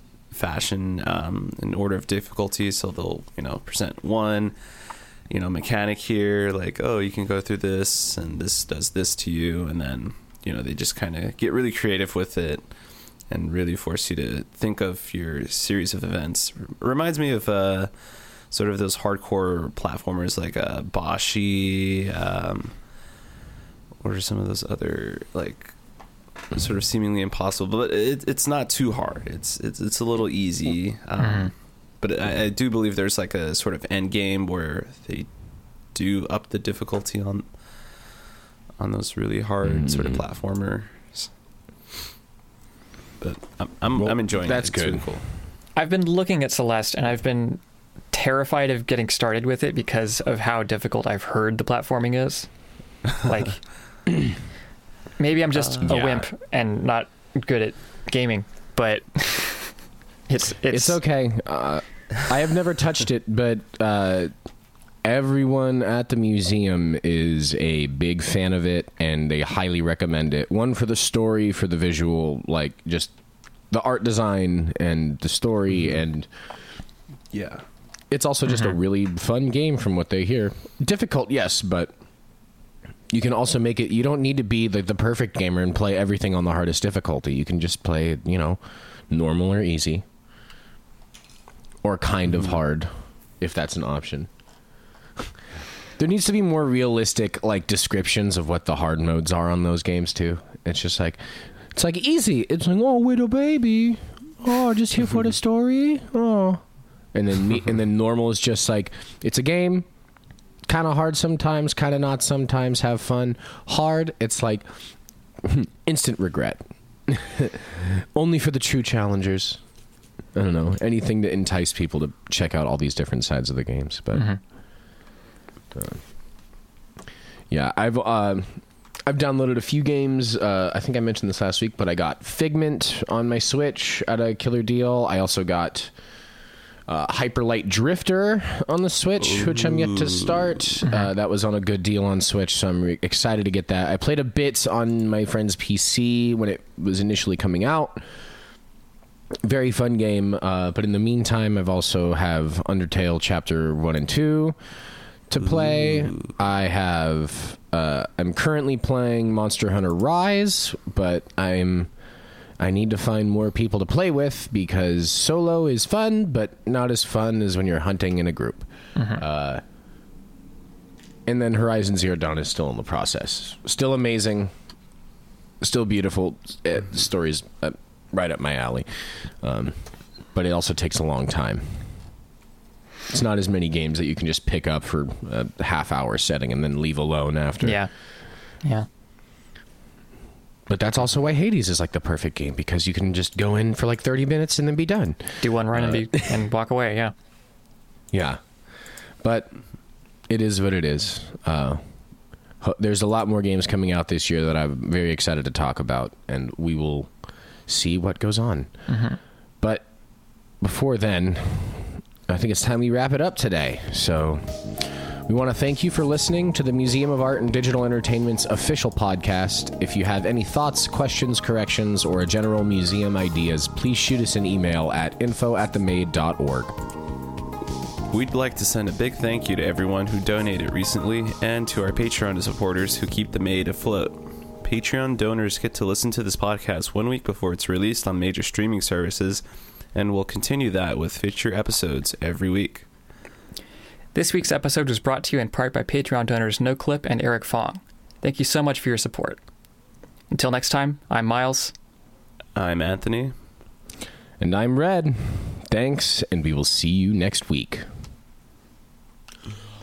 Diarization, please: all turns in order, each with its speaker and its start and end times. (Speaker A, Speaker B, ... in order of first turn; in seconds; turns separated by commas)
Speaker A: 0.3-23.1, Speaker A: 24.0-38.1, Speaker B: 31.2-31.5, Speaker A: 38.8-41.3, Speaker C: 39.6-40.2, Speaker A: 43.2-45.2, Speaker C: 44.0-45.1, Speaker B: 45.8-54.1, Speaker B: 55.2-61.0, Speaker A: 55.7-56.2, Speaker C: 60.7-64.3, Speaker C: 65.0-73.2, Speaker C: 73.7-76.3, Speaker A: 77.3-77.6, Speaker C: 78.1-81.9, Speaker C: 83.1-90.0, Speaker C: 91.8-94.3, Speaker C: 96.0-101.2, Speaker C: 101.7-109.9, Speaker C: 110.7-114.7, Speaker C: 115.4-119.6, Speaker C: 120.3-124.4, Speaker B: 124.1-124.4, Speaker C: 125.7-126.4, Speaker C: 127.5-135.9, Speaker C: 136.9-148.0, Speaker A: 139.3-140.3, Speaker C: 149.4-154.6, Speaker C: 155.3-161.9, Speaker A: 155.4-156.3, Speaker C: 162.6-169.6, Speaker B: 169.0-169.2, Speaker C: 171.3-174.5, Speaker C: 175.6-182.1, Speaker C: 183.1-187.9, Speaker B: 187.6-188.9, Speaker C: 190.7-196.1, Speaker B: 195.4-197.1, Speaker C: 198.1-198.7, Speaker C: 199.2-199.5, Speaker C: 200.2-201.8, Speaker C: 202.6-208.9, Speaker B: 208.9-209.2, Speaker C: 209.6-226.8, Speaker A: 228.1-242.9, Speaker B: 244.1-249.4, Speaker B: 250.3-251.7, Speaker A: 252.6-253.4, Speaker C: 254.4-257.9